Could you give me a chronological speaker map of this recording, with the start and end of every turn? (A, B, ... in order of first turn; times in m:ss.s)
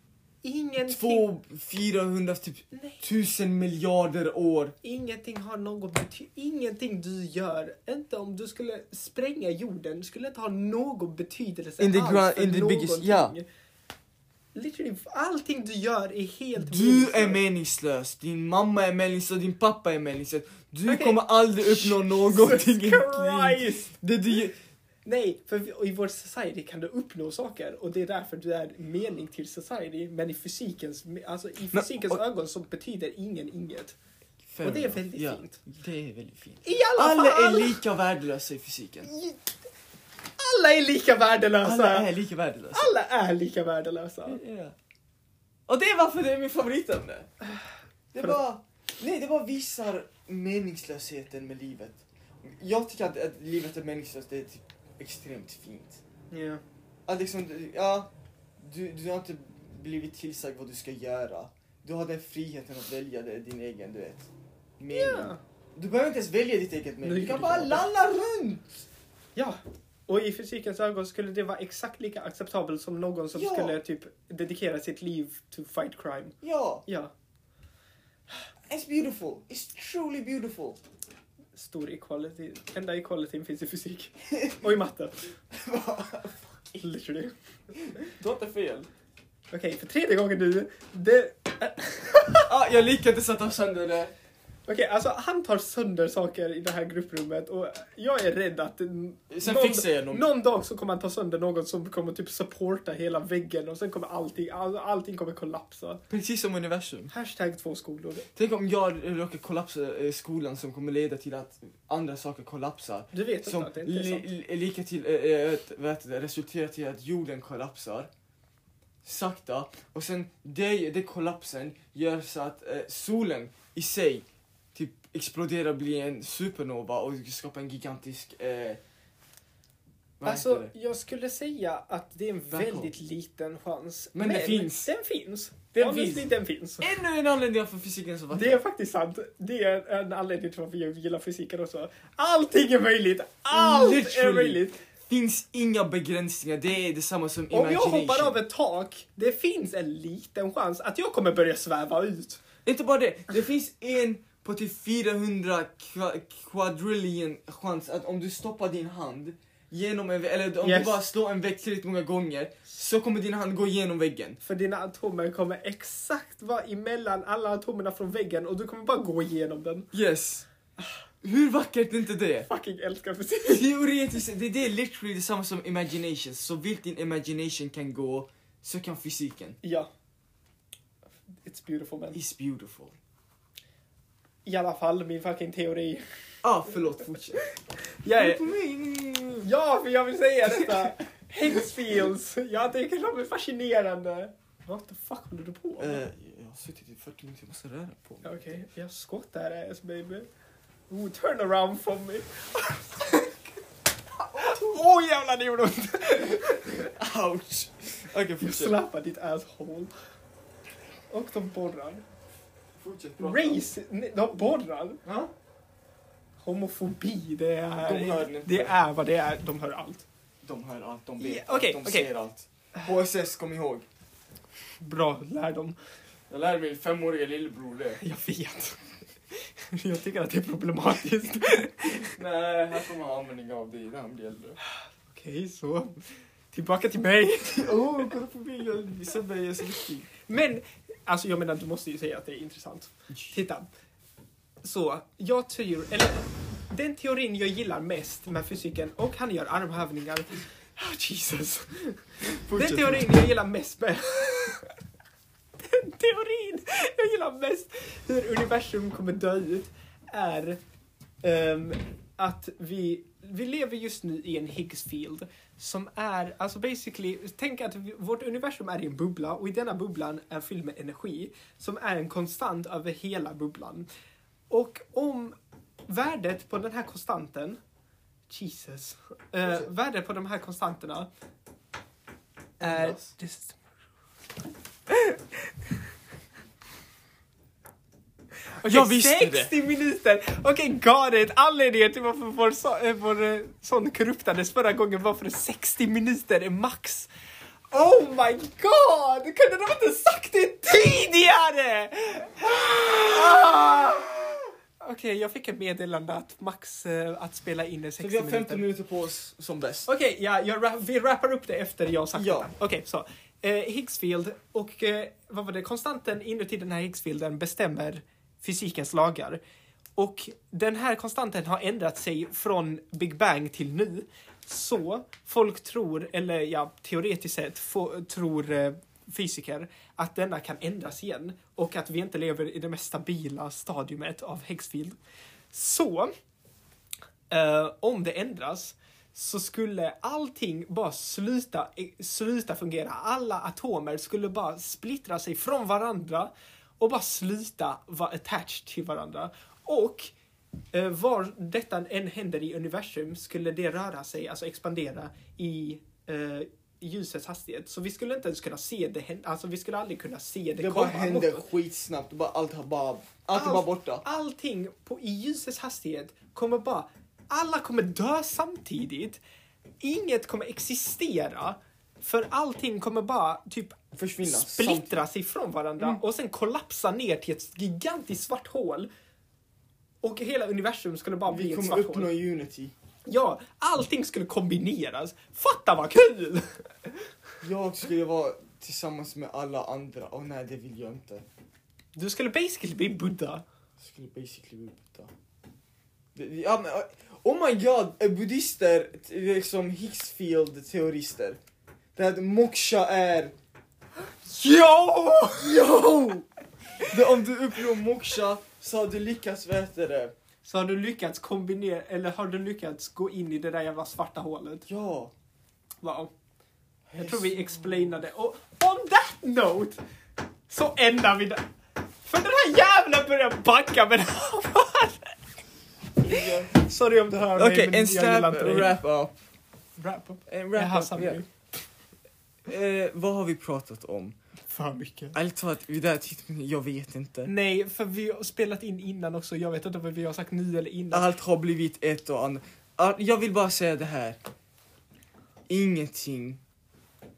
0:00.4-0:01.3 A
0:00.8-0:04.8 B
0:02.7-0:03.0 A
0:04.8-0:13.4 A
0:11.8-0:13.3 B
0:14.5-0:17.4 A
0:16.6-0:24.6 B
0:20.8-0:23.9 A
0:25.0-0:34.0 A
0:31.7-0:32.2 B
0:34.5-0:39.1 B
0:34.6-0:35.6 A
0:36.6-0:37.8 A
0:39.0-0:39.4 A
0:40.4-0:42.1 A
0:41.6-0:42.9 B
0:42.7-0:44.4 A
0:44.3-0:44.7 B
0:45.7-0:47.3 B
0:48.1-0:56.0 B
0:56.3-0:56.6 A
0:57.1-1:08.8 B
1:04.9-1:05.4 A
1:07.0-1:07.9 A
1:09.4-1:17.1 A
1:13.3-1:13.8 B
1:16.4-1:16.8 B
1:18.7-1:20.8 B
1:21.5-1:25.2 A
1:25.5-1:26.5 B
1:26.8-1:27.4 A
1:28.0-1:28.9 B
1:29.5-1:32.5 A
1:32.4-1:34.1 B
1:34.7-1:46.0 A
1:39.3-1:40.2 B
1:46.1-1:47.1 B
1:47.1-1:48.3 A
1:48.3-1:58.1 B
1:53.1-1:54.3 A
1:59.0-2:08.8 B
2:10.2-2:10.7 B
2:10.2-2:16.9 A
2:12.5-2:12.9 B
2:14.1-2:14.9 B
2:15.8-2:18.6 B
2:18.3-2:24.8 A
2:23.5-2:28.4 B
2:27.5-2:32.4 A
2:32.6-2:44.4 B
2:40.6-2:41.0 A
2:44.4-2:49.9 A
2:49.9-2:50.4 B
2:51.2-2:52.5 B
2:52.4-2:53.6 A
2:53.4-2:59.6 B
2:59.6-2:59.9 A
3:01.3-3:02.2 A
3:02.1-3:03.0 B
3:04.4-3:06.0 A
3:06.4-3:07.4 B
3:07.4-3:08.4 A
3:08.1-3:09.5 B
3:09.4-3:16.0 A
3:10.6-3:10.9 B
3:15.8-3:18.7 B
3:18.2-3:20.3 A
3:20.9-3:23.6 A
3:24.1-3:26.9 A
3:24.4-3:24.8 B
3:26.8-3:28.8 B
3:28.4-3:29.9 A
3:31.1-3:32.0 A
3:32.8-3:33.6 B
3:33.2-3:35.2 A
3:36.4-3:40.0 A
3:37.8-3:38.7 B
3:40.4-3:43.8 B
3:41.2-3:42.1 A
3:44.8-3:45.8 A
3:46.3-3:48.0 B
3:48.0-3:52.1 A
3:52.0-3:54.6 B
3:55.1-3:56.0 A
3:56.5-3:57.8 A
3:57.5-4:00.1 B
4:00.2-4:03.7 A
4:04.6-4:14.7 A
4:12.3-4:13.1 B
4:15.6-4:20.6 A
4:21.2-4:33.9 A
4:34.5-4:35.4 A
4:35.9-4:37.6 A
4:38.3-4:41.1 A
4:42.6-4:43.6 A
4:42.6-4:43.1 B
4:44.9-4:45.3 A
4:48.5-4:57.1 A
4:48.6-4:49.5 B
4:57.7-5:08.6 A
5:08.0-5:09.9 B
5:09.9-5:19.4 A
5:12.1-5:12.5 B
5:20.0-5:35.0 A
5:35.5-5:36.1 A
5:37.3-5:50.1 A
5:50.7-6:01.5 A
6:00.6-6:04.0 B
6:03.3-6:09.2 A
6:09.8-6:18.9 A
6:13.9-6:15.0 B
6:20.0-6:22.1 A
6:21.3-6:22.7 B
6:23.1-6:27.0 A
6:27.4-6:31.2 B
6:32.0-6:33.4 A
6:33.8-6:35.1 B
6:36.1-6:41.4 B
6:42.0-6:43.3 B
6:44.2-6:45.6 A
6:45.4-6:46.2 B
6:46.8-6:50.1 B
6:50.4-6:54.7 A
6:54.7-6:55.1 B
6:55.8-6:56.1 A
6:56.9-6:58.0 B
6:56.9-6:59.8 A
7:00.5-7:01.4 A
7:02.0-7:05.1 A
7:06.0-7:08.8 A
7:06.0-7:06.5 B
7:07.1-7:09.1 B
7:09.8-7:11.3 A
7:10.3-7:11.2 B
7:12.4-7:14.2 B
7:14.5-7:15.2 A
7:15.1-7:17.3 B
7:17.2-7:21.1 A
7:20.9-7:24.2 B
7:25.5-7:26.4 B